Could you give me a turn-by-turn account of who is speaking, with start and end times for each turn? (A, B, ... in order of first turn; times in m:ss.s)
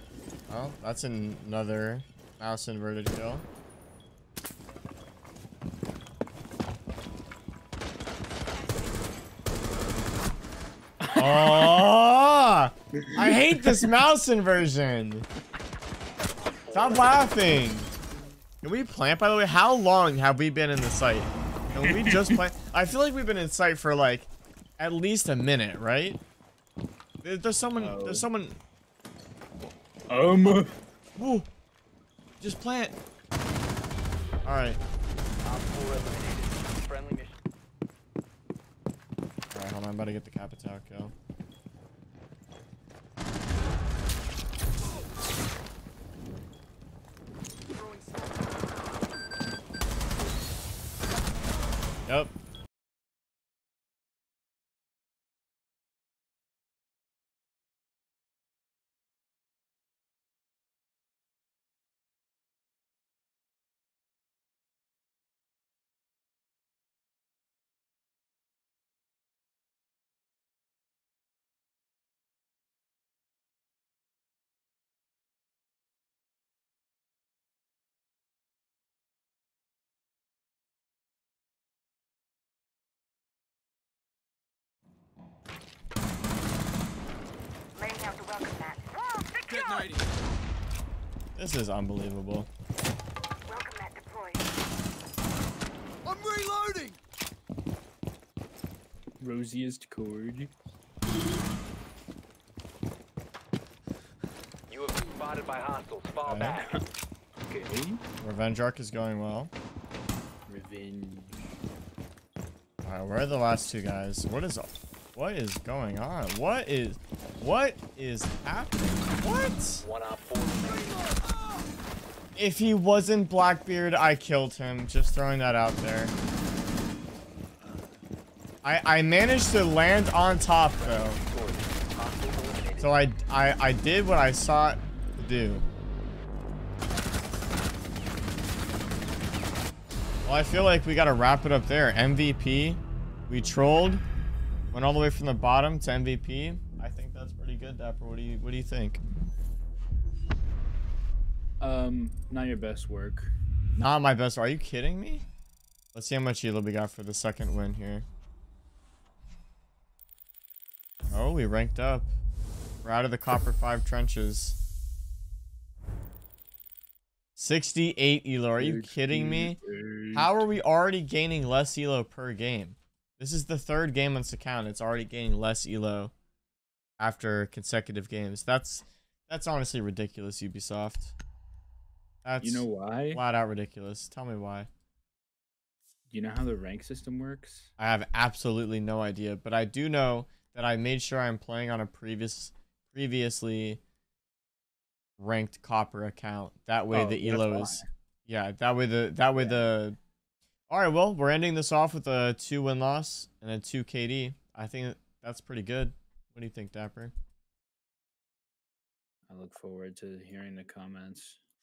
0:00.5-0:03.4 A
0:11.0-0:11.8 B
0:11.2-0:15.3 A
0:13.2-0:13.9 B
0:16.3-0:17.3 C
0:16.7-0:17.9 A
0:18.6-0:26.2 A
0:21.8-0:22.4 B
0:27.2-0:28.6 A
0:27.8-0:28.3 B
0:30.1-0:30.7 B
0:31.2-0:31.5 A
0:32.4-0:33.0 A
0:34.4-0:34.8 A
0:35.4-0:37.4 C
0:39.5-0:41.1 A
0:52.0-0:52.3 A
1:27.7-1:30.0 D
1:31.4-1:32.5 A
1:33.4-1:34.4 D
1:39.2-1:40.5 B
1:44.7-1:46.8 C
1:46.2-1:46.6 A
1:47.4-1:48.0 B
1:48.2-1:49.5 A
1:50.5-1:51.4 B
1:52.8-1:59.8 A
1:59.8-2:01.1 C
2:02.4-2:06.1 A
2:08.6-2:11.2 A
2:10.8-2:13.0 C
2:12.8-2:15.6 A
2:20.2-2:24.0 A
2:24.7-2:29.0 A
2:31.6-2:33.4 B
2:33.8-2:35.2 A
2:35.9-2:38.0 A
2:41.1-2:42.1 A
2:42.8-2:44.6 A
2:47.4-2:49.6 A
2:48.6-2:50.5 B
2:50.1-2:56.1 A
2:57.0-3:01.1 A
3:02.2-3:04.7 A
3:02.4-3:03.2 B
3:06.1-3:07.7 B
3:07.8-3:13.8 A
3:15.2-3:20.0 A
3:16.9-3:17.9 B
3:19.4-3:19.7 B
3:20.7-3:27.1 A
3:29.3-3:31.4 B